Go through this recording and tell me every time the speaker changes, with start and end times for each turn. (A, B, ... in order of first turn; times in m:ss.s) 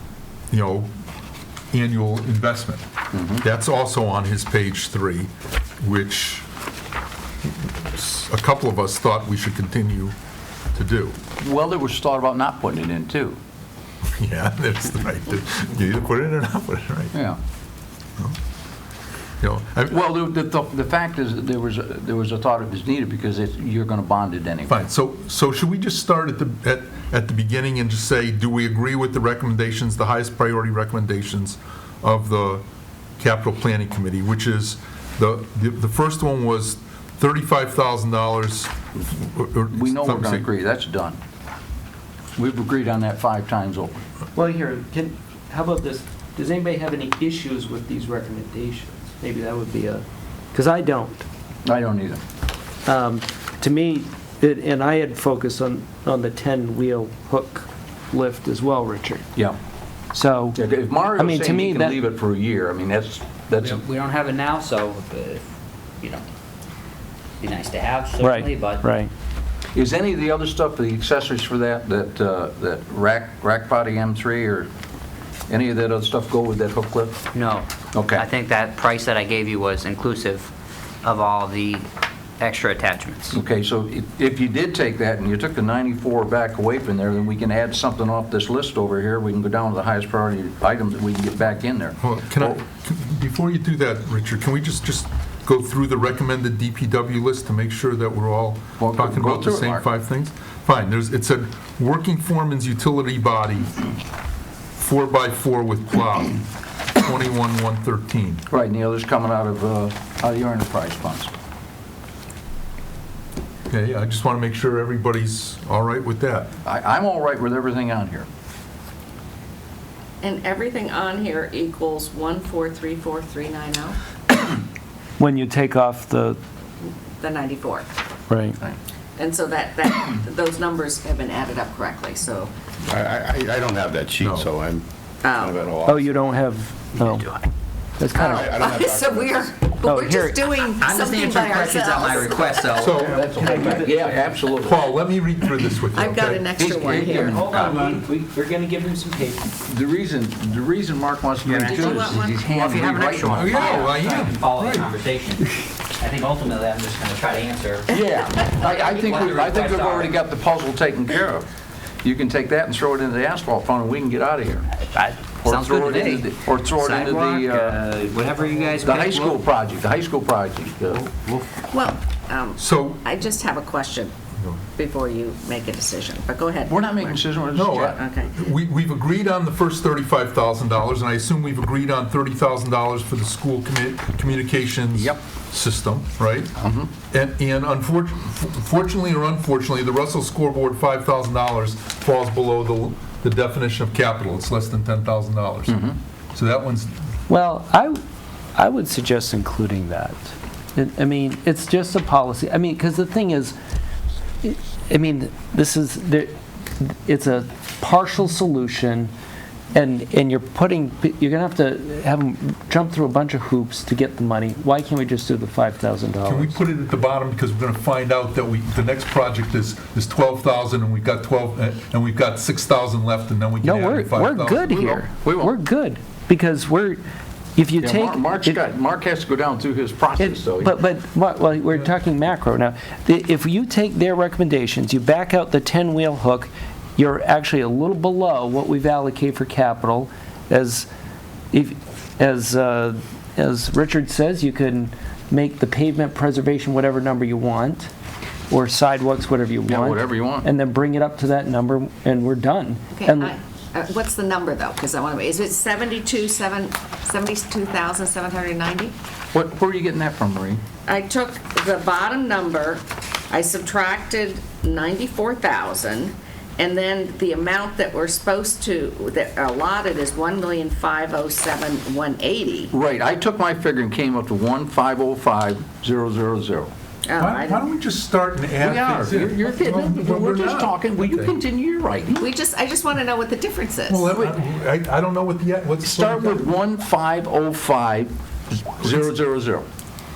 0:00.5-0:00.9 A
0:01.7-0:02.8 A
0:03.1-0:03.4 B
0:03.3-0:06.4 A
0:07.4-0:10.1 A
0:10.7-0:11.2 A
0:11.4-0:13.4 B
0:14.2-0:17.1 A
0:17.1-0:17.4 B
0:19.4-0:19.9 A
0:19.9-0:24.7 B
0:24.7-0:32.6 A
0:33.2-0:40.4 A
0:39.7-0:41.2 B
0:42.4-0:44.0 B
0:44.3-0:51.2 C
0:51.6-0:52.2 B
0:52.8-0:59.2 C
1:00.1-1:00.6 C
1:00.5-1:03.8 B
1:01.2-1:02.0 C
1:03.6-1:05.4 D
1:07.4-1:08.8 D
1:08.2-1:09.1 C
1:09.7-1:14.7 B
1:15.5-1:17.2 B
1:17.3-1:20.5 D
1:17.9-1:18.2 B
1:21.0-1:21.9 D
1:22.4-1:23.4 D
1:23.3-1:32.6 B
1:32.0-1:43.8 A
1:38.8-1:39.8 B
1:44.8-1:46.4 A
1:47.0-1:48.4 A
1:48.5-1:51.3 B
1:53.7-1:56.5 A
1:56.6-1:58.3 B
2:00.2-2:04.0 E
2:05.2-2:06.4 C
2:06.8-2:07.8 E
2:08.3-2:08.6 C
2:09.2-2:12.5 E
2:12.9-2:16.4 F
2:14.2-2:14.5 A
2:15.2-2:15.6 E
2:15.8-2:17.2 C
2:17.0-2:17.5 D
2:18.0-2:18.5 C
2:18.1-2:19.5 F
2:18.1-2:22.7 E
2:19.8-2:20.4 C
2:20.8-2:23.8 D
2:22.8-2:23.2 A
2:23.0-2:24.9 B
2:23.3-2:24.2 C
2:24.5-2:26.4 A
2:25.9-2:27.4 E
2:26.6-2:28.0 B
2:27.0-2:28.2 D
2:27.2-2:29.5 C
2:29.6-2:33.9 B
2:31.4-2:37.9 D
2:31.6-2:32.8 E
2:33.3-2:34.9 A
2:37.9-2:41.4 B
2:38.6-2:40.1 D
2:42.0-2:44.7 B
2:44.9-2:49.4 D
2:45.4-2:47.8 B
2:48.8-2:51.1 B
2:51.1-2:51.5 D
2:51.7-2:54.1 E
2:52.6-2:53.0 A
2:54.8-2:57.2 E
2:56.7-2:58.0 B
2:57.5-3:06.5 A
2:57.8-2:58.3 E
3:04.9-3:05.2 B
3:06.6-3:06.9 B
3:07.1-3:15.8 A
3:15.7-3:16.0 B
3:16.3-3:16.9 A
3:17.3-3:18.0 C
3:18.5-3:23.5 C
3:24.4-3:29.1 C
3:29.7-3:36.6 C
3:36.2-3:44.7 A
3:43.6-3:47.0 C
3:44.6-3:45.6 B
3:47.6-3:48.6 C
3:47.8-3:50.8 B
3:50.2-4:00.9 C
4:01.5-4:07.9 C
4:08.5-4:13.4 C
4:09.7-4:10.4 B
4:13.0-4:18.9 E
4:19.3-4:20.6 B
4:20.8-4:32.7 E
4:32.7-4:36.7 B
4:37.0-4:37.6 E
4:37.2-4:41.3 A
4:38.6-4:42.3 B
4:42.2-4:44.1 E
4:43.9-4:46.5 A
4:45.8-4:48.1 B
4:48.6-4:49.6 B